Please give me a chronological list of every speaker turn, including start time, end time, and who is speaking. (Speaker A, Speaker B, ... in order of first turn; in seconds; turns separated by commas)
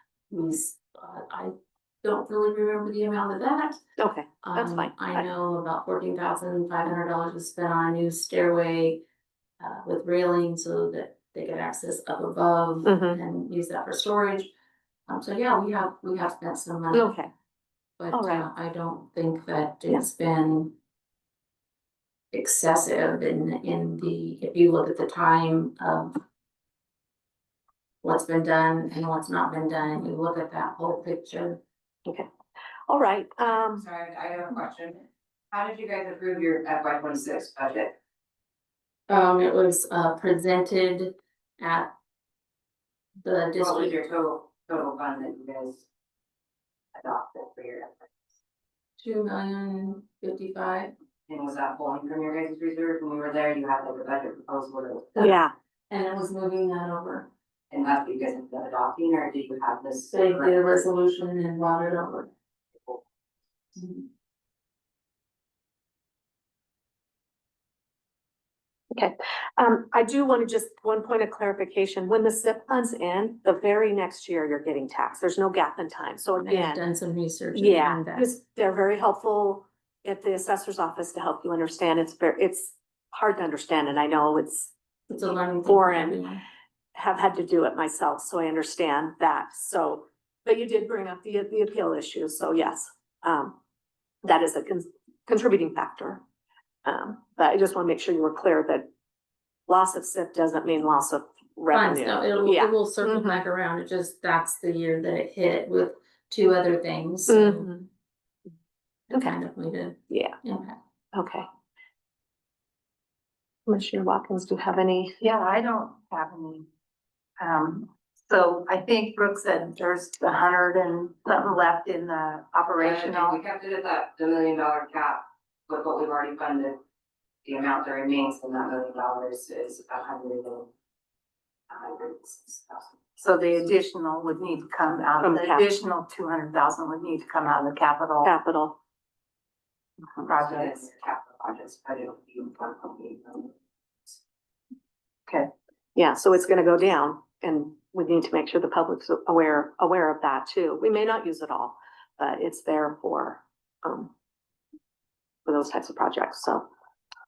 Speaker A: 0.3-3.8, Speaker B: 4.0-5.2, Speaker A: 4.4-9.0, Speaker A: 9.6-14.5, Speaker B: 12.8-13.2, Speaker A: 15.1-17.1, Speaker B: 16.9-17.3, Speaker A: 18.0-20.7, Speaker B: 18.1-18.5, Speaker A: 22.3-26.2, Speaker A: 28.0-31.6, Speaker B: 32.9-33.9, Speaker C: 33.7-37.9, Speaker A: 39.1-41.9, Speaker A: 43.2-44.0, Speaker C: 43.6-45.8, Speaker C: 46.9-48.1, Speaker A: 49.0-50.9, Speaker C: 51.3-55.3, Speaker B: 55.2-55.5, Speaker A: 55.9-57.3, Speaker C: 57.7-60.5, Speaker A: 60.1-62.3, Speaker B: 68.9-76.8, Speaker A: 76.4-78.3, Speaker B: 77.5-84.7, Speaker A: 85.1-86.4, Speaker B: 85.6-86.2, Speaker B: 86.9-93.6, Speaker B: 94.2-96.2, Speaker B: 96.8-98.9, Speaker B: 99.7-103.5, Speaker A: 101.7-107.7, Speaker B: 107.3-107.9, Speaker A: 109.1-110.8, Speaker B: 110.1-110.3, Speaker B: 111.1-111.5, Speaker B: 113.7-115.2, Speaker D: 115.2-116.6, Speaker D: 117.4-123.4, Speaker C: 122.8-126.8, Speaker C: 127.4-130.7, Speaker C: 131.7-132.9, Speaker D: 133.2-138.3, Speaker B: 135.2-135.7, Speaker B: 138.2-138.8, Speaker D: 140.2-140.7, Speaker C: 140.3-143.5, Speaker B: 145.9-154.1, Speaker B: 155.4-156.7